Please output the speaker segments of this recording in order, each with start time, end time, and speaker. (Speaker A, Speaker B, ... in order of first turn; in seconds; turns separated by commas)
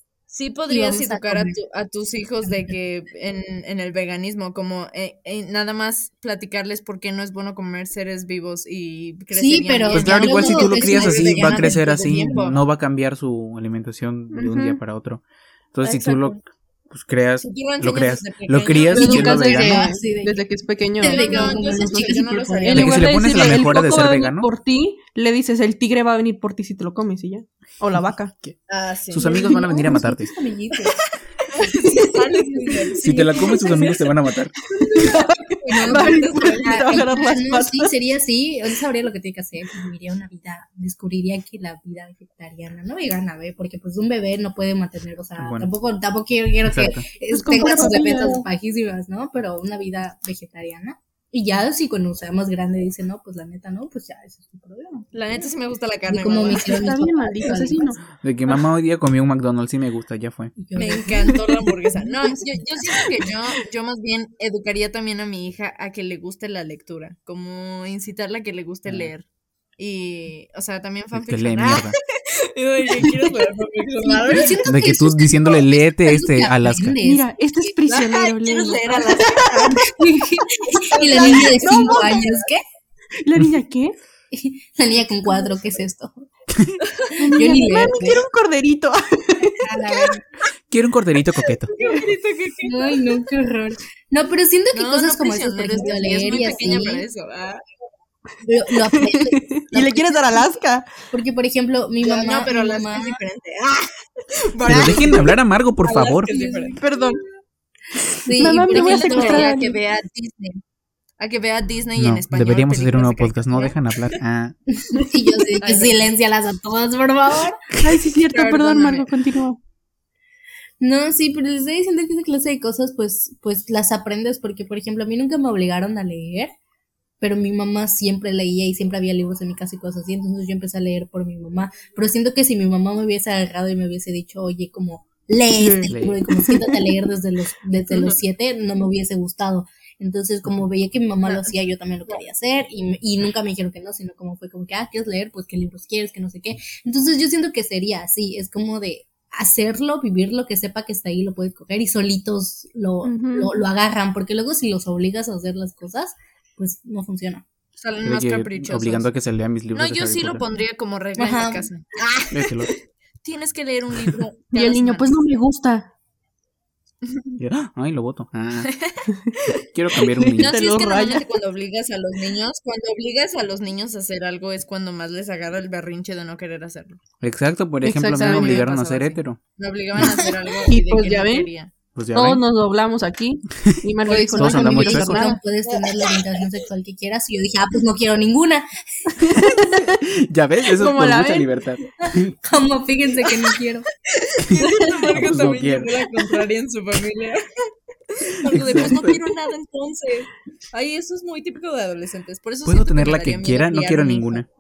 Speaker A: 0.3-12.6, Speaker B: 0.7-1.6, Speaker B: 9.3-12.3, Speaker C: 9.9-19.9, Speaker D: 14.3-14.8, Speaker A: 15.8-16.4, Speaker A: 17.4-19.3, Speaker D: 18.9-28.3, Speaker B: 19.0-20.4, Speaker B: 21.0-23.0, Speaker A: 21.0-23.6, Speaker C: 22.7-24.5, Speaker C: 28.0-28.6, Speaker A: 28.7-29.5, Speaker C: 29.1-30.3, Speaker B: 29.2-31.0, Speaker A: 31.5-34.0, Speaker C: 33.0-34.5, Speaker D: 34.8-37.9, Speaker B: 34.8-55.5, Speaker A: 35.6-37.0, Speaker C: 45.4-45.7, Speaker C: 46.7-47.0, Speaker D: 47.3-48.5, Speaker A: 55.1-56.9, Speaker B: 56.1-58.0, Speaker D: 56.5-58.0, Speaker C: 58.2-60.5, Speaker B: 60.6-63.0, Speaker A: 60.8-69.3, Speaker C: 68.9-69.1, Speaker A: 69.8-71.9, Speaker C: 71.1-72.0, Speaker A: 72.5-74.7, Speaker B: 74.0-77.8, Speaker C: 74.7-77.0, Speaker D: 77.0-79.8, Speaker A: 77.9-79.9, Speaker B: 79.4-82.6, Speaker A: 80.7-82.2, Speaker D: 81.0-82.3, Speaker D: 83.2-84.0, Speaker B: 84.3-86.3, Speaker A: 86.8-87.1, Speaker B: 87.2-88.2, Speaker D: 87.2-89.8, Speaker B: 89.6-90.2, Speaker A: 89.8-90.1, Speaker C: 90.7-91.7, Speaker A: 91.7-93.2, Speaker B: 92.6-97.1, Speaker A: 94.7-97.6, Speaker B: 98.4-100.5, Speaker D: 98.8-100.9, Speaker B: 101.1-103.2, Speaker A: 102.0-106.9, Speaker C: 104.7-106.3, Speaker B: 106.3-107.0, Speaker D: 106.8-107.2, Speaker B: 108.1-109.6, Speaker D: 108.4-109.8, Speaker A: 108.7-110.6, Speaker A: 111.2-113.8, Speaker C: 112.0-114.5, Speaker B: 114.7-117.6, Speaker A: 115.6-116.1, Speaker D: 117.8-119.6, Speaker A: 118.3-119.1, Speaker B: 120.8-126.5, Speaker B: 127.2-157.4, Speaker D: 135.6-136.9, Speaker C: 135.9-136.2, Speaker A: 137.9-138.2, Speaker A: 141.2-141.5, Speaker D: 153.0-153.7, Speaker A: 157.8-159.1, Speaker C: 158.1-160.4, Speaker A: 159.7-162.5, Speaker B: 161.2-161.7, Speaker C: 162.3-162.7, Speaker A: 163.2-165.2, Speaker D: 164.5-165.9, Speaker A: 167.1-167.4, Speaker C: 167.4-168.7, Speaker A: 168.7-169.1, Speaker C: 169.5-170.5, Speaker D: 170.0-171.3, Speaker A: 170.4-177.0, Speaker C: 177.2-179.4, Speaker D: 177.8-178.7, Speaker A: 178.2-181.7, Speaker D: 180.0-181.5, Speaker C: 181.9-182.4, Speaker D: 182.1-185.4, Speaker B: 184.1-188.7, Speaker C: 184.3-185.3, Speaker A: 185.7-186.4, Speaker D: 189.2-190.0, Speaker C: 189.9-192.3, Speaker D: 190.8-191.5, Speaker B: 192.0-193.9, Speaker A: 194.2-197.4, Speaker D: 194.6-195.1, Speaker C: 195.1-195.9, Speaker A: 198.1-204.4, Speaker C: 198.5-199.2, Speaker C: 202.7-204.5